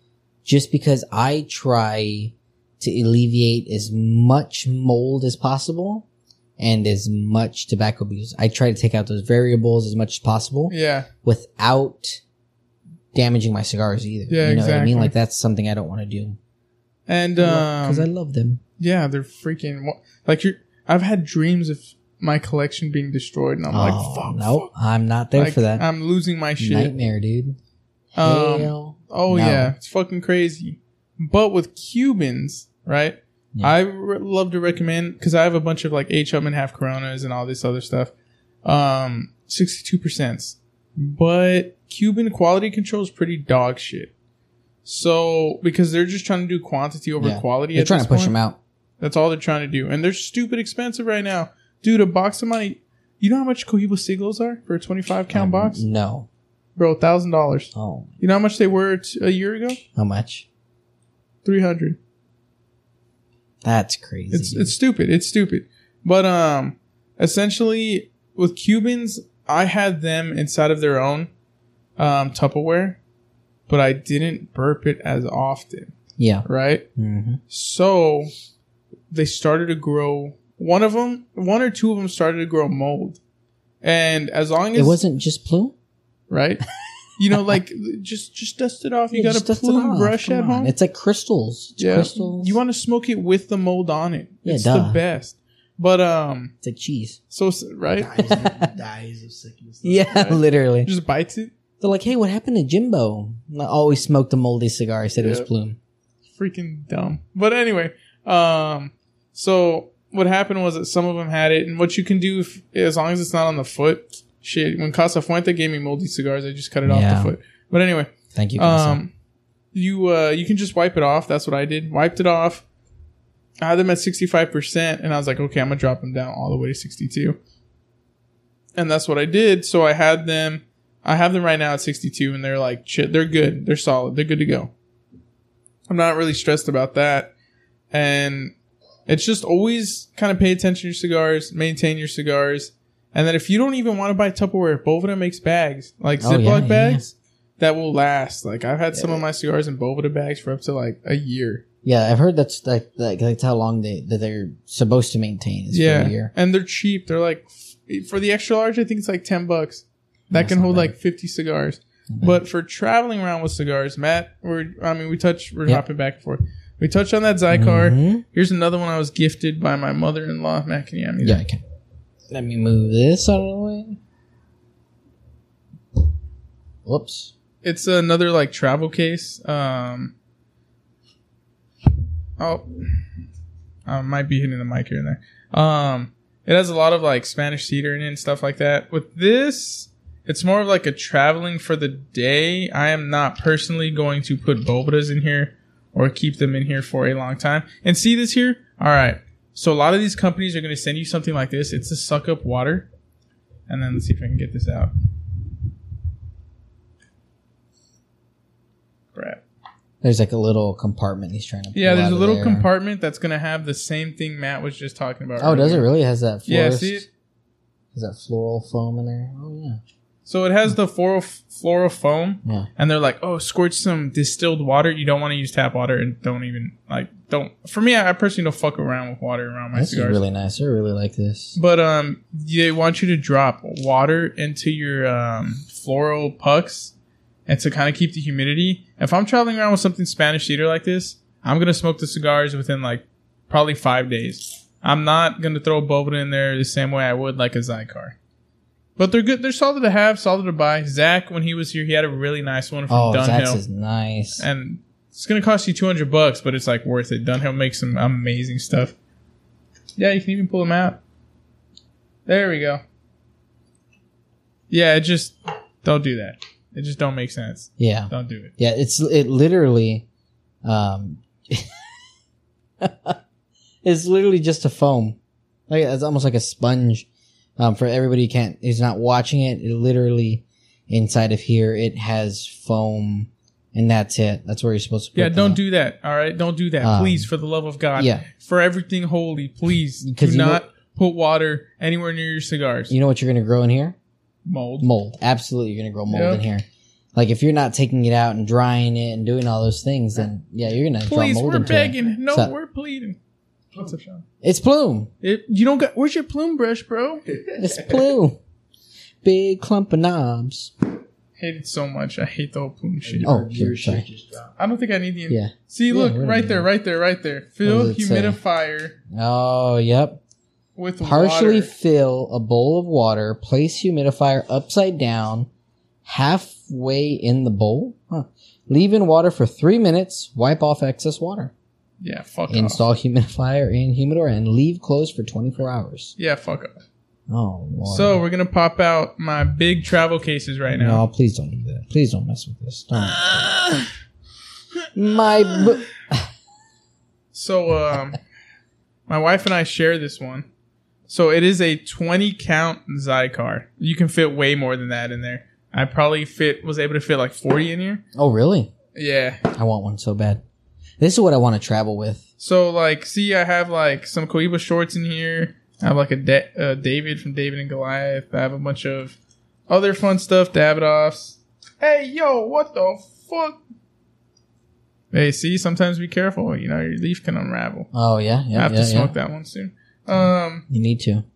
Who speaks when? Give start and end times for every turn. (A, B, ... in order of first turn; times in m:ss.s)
0:00.4-0:06.0 A
0:06.6-0:12.2 A
0:10.7-0:11.1 B
0:13.1-0:16.4 A
0:14.3-0:15.1 B
0:17.1-0:18.1 B
0:17.4-0:18.6 A
0:18.8-0:24.7 B
0:23.7-0:25.8 A
0:25.4-0:26.9 B
0:26.6-0:27.6 A
0:28.1-0:29.7 A
0:28.2-0:38.1 B
0:38.6-0:44.1 B
0:44.8-0:48.3 B
0:47.2-0:48.6 A
0:49.0-0:55.8 B
0:55.3-0:56.3 A
0:56.8-0:59.8 B
0:57.7-0:58.1 A
0:59.9-1:00.4 A
1:01.4-1:02.0 B
1:03.6-1:04.7 A
1:04.3-1:11.3 B
1:12.0-1:13.0 B
1:13.7-1:15.9 B
1:16.2-1:17.4 A
1:16.4-1:16.8 B
1:17.5-1:18.3 B
1:19.1-1:23.2 B
1:23.8-1:25.0 B
1:24.7-1:25.7 A
1:26.3-1:26.6 B
1:27.2-1:30.7 B
1:29.1-1:32.6 A
1:31.8-1:36.5 B
1:34.4-1:35.0 A
1:36.6-1:37.2 A
1:37.3-1:38.2 B
1:38.0-1:40.3 C
1:38.1-1:38.7 A
1:39.8-1:40.9 A
1:40.0-1:41.5 B
1:41.8-1:45.8 A
1:45.2-1:45.5 B
1:46.4-1:59.1 B
1:56.8-1:57.3 A
1:58.3-1:59.0 A
1:59.7-2:02.6 B
2:03.6-2:07.4 B
2:08.8-2:14.7 B
2:15.9-2:17.3 B
2:17.9-2:18.5 B
2:19.1-2:31.6 B
2:26.2-2:27.0 A
2:28.9-2:29.2 A
2:31.8-2:36.3 A
2:35.7-2:51.4 B
2:40.3-2:40.9 A
2:42.1-2:42.4 A
2:47.5-2:48.2 A
2:51.2-2:51.6 A
2:52.3-2:54.0 A
2:56.8-2:57.3 A
2:57.6-3:00.1 B
3:02.4-3:02.8 B
3:03.9-3:22.9 B
3:23.7-3:24.9 B
3:29.1-3:29.4 B
3:30.0-3:32.7 A
3:31.7-3:35.9 B
3:35.4-3:37.0 A
3:36.5-3:37.0 B
3:37.9-3:39.8 A
3:40.2-3:50.2 B
3:49.7-3:51.6 A
3:51.6-3:56.9 B
3:57.5-4:08.1 B
4:09.0-4:13.6 B
4:12.9-4:14.4 A
4:14.4-4:18.9 B
4:20.0-4:21.0 B
4:22.2-4:22.8 B
4:24.7-4:28.5 B
4:27.8-4:30.0 A
4:30.6-4:31.7 A
4:32.8-4:33.2 A
4:33.8-4:35.2 A
4:35.7-4:37.1 A
4:37.6-4:45.6 A
4:45.2-4:52.9 B
4:46.8-4:47.3 A
4:48.0-4:48.2 A
4:50.0-4:50.6 A
4:52.9-4:54.0 A
4:54.4-4:54.9 B
4:54.8-5:02.5 A
4:56.1-4:56.4 B
5:01.0-5:03.2 B
5:03.8-5:04.2 B
5:04.4-5:05.1 A
5:05.2-5:07.2 B
5:07.6-5:08.4 A
5:07.6-5:08.0 C
5:09.2-5:10.7 A
5:11.4-5:13.4 B
5:13.0-5:14.5 C
5:13.2-5:14.0 A
5:14.6-5:18.9 B
5:15.3-5:16.6 A
5:17.6-5:18.4 A
5:19.1-5:20.2 A
5:20.8-5:21.7 B
5:21.0-5:25.5 A
5:26.0-5:31.5 A
5:32.0-5:32.8 B
5:32.5-5:36.1 A
5:36.2-5:36.8 B
5:37.3-5:38.2 A
5:37.8-5:41.0 B
5:40.7-5:43.3 A
5:43.2-5:43.8 B
5:44.9-5:46.3 A
5:45.4-5:45.7 B
5:47.3-5:48.2 B
5:49.1-5:50.4 B
5:51.1-5:58.0 B
5:58.1-5:58.7 A
5:58.9-5:59.4 B
5:59.5-6:00.4 A
6:01.0-6:02.2 A
6:02.4-6:09.2 B
6:09.7-6:13.6 B
6:15.1-6:17.9 B
6:17.9-6:19.1 A
6:18.5-6:20.6 B
6:20.7-6:21.2 A